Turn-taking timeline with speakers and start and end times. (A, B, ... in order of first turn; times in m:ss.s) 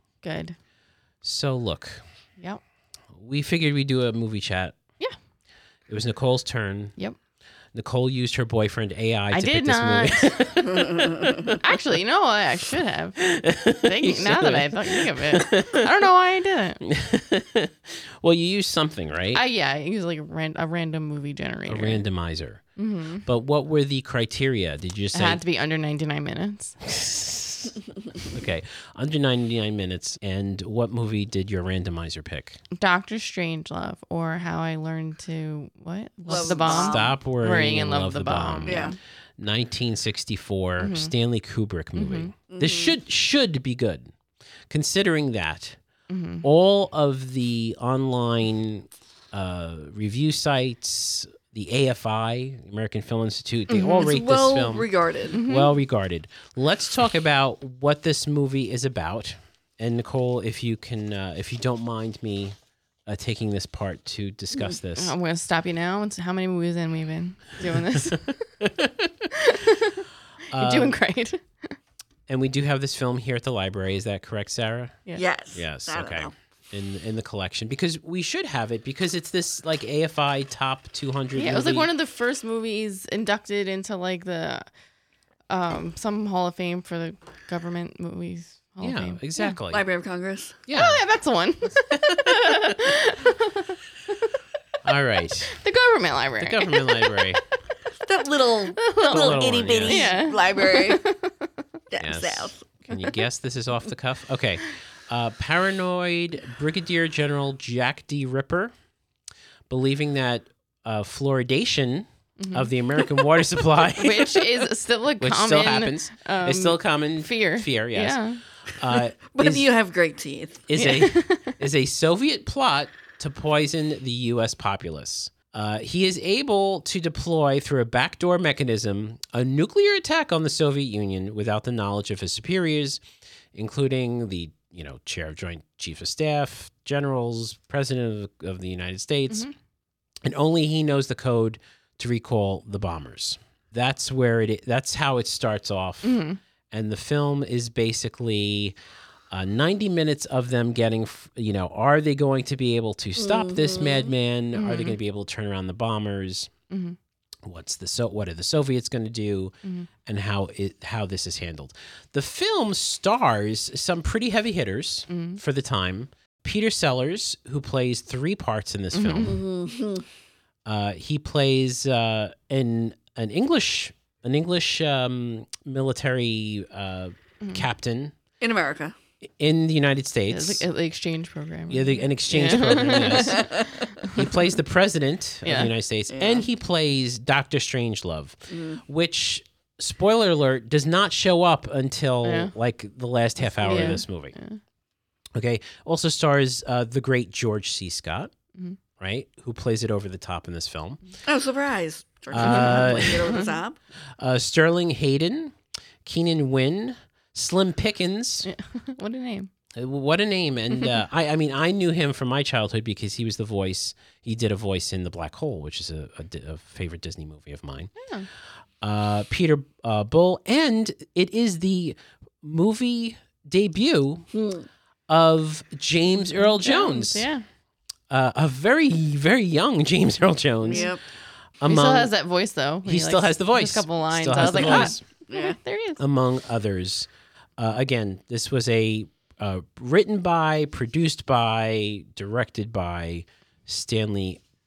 0:00.2-0:00.6 A
0:01.2-0:02.0 B
0:03.1-0:04.8 B
0:05.9-0:07.0 B
0:07.7-0:11.6 B
0:09.3-0:16.8 A
0:10.7-0:11.4 C
0:13.2-0:15.9 B
0:16.9-0:19.4 B
0:19.3-0:22.0 A
0:21.7-0:22.6 B
0:22.8-0:23.2 A
0:23.2-0:25.4 B
0:25.1-0:26.8 A
0:26.9-0:27.7 B
0:28.3-0:32.6 B
0:32.7-0:39.0 A
0:36.3-0:37.1 C
0:36.3-0:44.1 B
0:38.6-0:38.9 C
0:40.8-0:41.1 A
0:41.9-0:42.3 A
0:42.5-0:43.0 C
0:44.7-0:45.8 B
0:46.1-0:46.4 A
0:46.4-1:02.6 B
0:53.7-0:54.1 A
0:53.9-0:55.4 C
0:55.3-0:55.8 A
1:03.1-1:05.1 B
1:05.0-1:08.4 A
1:08.6-1:08.9 B
1:09.3-1:11.8 A
1:10.5-1:10.9 B
1:12.3-1:15.0 B
1:15.1-1:16.3 C
1:15.5-1:21.9 B
1:21.3-1:24.7 A
1:25.5-1:29.6 A
1:28.8-1:29.9 B
1:29.7-1:30.6 C
1:30.7-1:31.0 B
1:30.7-1:34.3 A
1:32.3-1:32.6 B
1:34.8-1:35.5 B
1:35.5-1:37.5 A
1:36.4-1:37.4 B
1:38.0-1:41.0 C
1:38.8-1:41.5 A
1:39.0-1:40.1 B
1:41.9-1:43.0 C
1:42.0-1:48.7 B
1:49.7-1:54.4 B
1:52.4-1:52.7 A
1:54.0-1:58.4 A
1:55.2-1:58.2 B
1:58.7-1:59.7 B
1:59.3-2:00.6 C
2:00.7-2:13.0 B
2:00.8-2:01.6 A
2:13.5-2:19.5 B
2:20.2-2:26.2 B
2:26.0-2:26.4 A
2:26.7-2:28.7 B
2:29.3-2:36.5 B
2:33.2-2:34.1 C
2:34.5-2:35.0 A
2:36.7-2:37.0 A
2:37.4-2:39.5 B
2:40.0-2:49.4 B
2:45.1-2:45.4 A
2:48.9-2:49.4 A
2:49.2-2:50.0 C
2:50.6-2:58.2 B
2:57.4-2:57.7 A
2:58.4-2:58.9 C
2:59.4-3:00.6 B
3:00.3-3:04.6 A
3:01.7-3:03.5 B
3:03.2-3:03.9 C
3:04.0-3:14.3 B
3:05.4-3:05.7 A
3:06.1-3:06.4 C
3:08.5-3:08.8 C
3:12.2-3:12.5 A
3:13.4-3:14.6 A
3:15.3-3:18.3 B
3:19.0-3:21.0 B
3:21.2-3:23.8 C
3:22.3-3:23.4 B
3:22.4-3:23.6 A
3:24.2-3:28.5 B
3:28.4-3:29.5 A
3:29.7-3:37.9 B
3:38.0-3:38.3 A
3:38.8-3:44.3 B
3:44.3-3:44.6 C
3:45.1-3:47.3 B
3:46.1-3:47.4 A
3:48.1-3:50.9 B
3:50.6-3:51.0 C
3:51.6-3:52.1 B
3:51.6-3:56.0 A
3:52.8-3:55.0 B
3:54.5-3:55.6 C
3:56.0-4:04.4 B